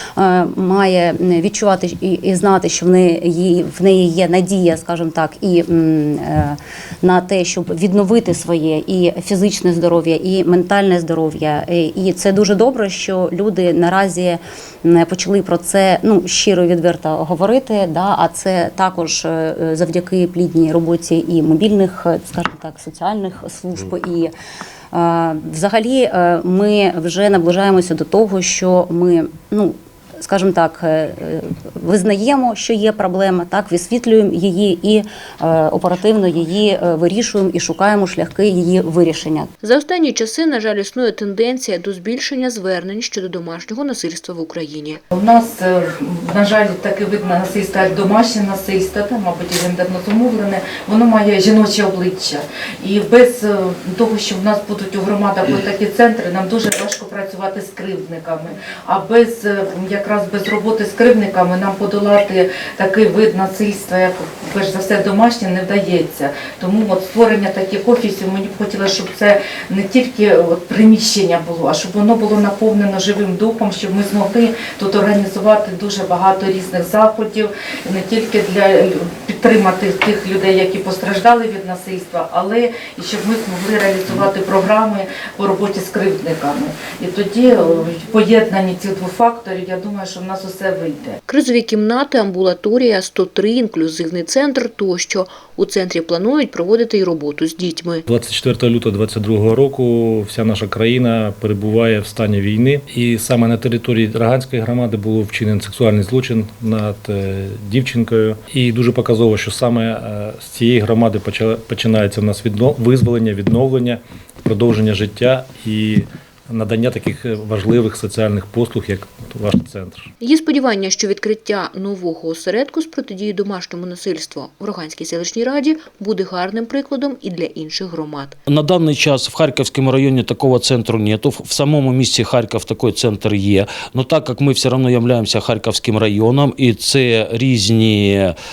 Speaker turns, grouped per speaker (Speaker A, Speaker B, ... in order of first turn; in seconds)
Speaker A: 0.2-24.3, 24.9-39.5
Speaker B: 39.6-45.0, 91.3-98.0, 120.2-128.3
Speaker C: 45.1-91.2
Speaker D: 98.1-120.1
Speaker E: 128.5-138.3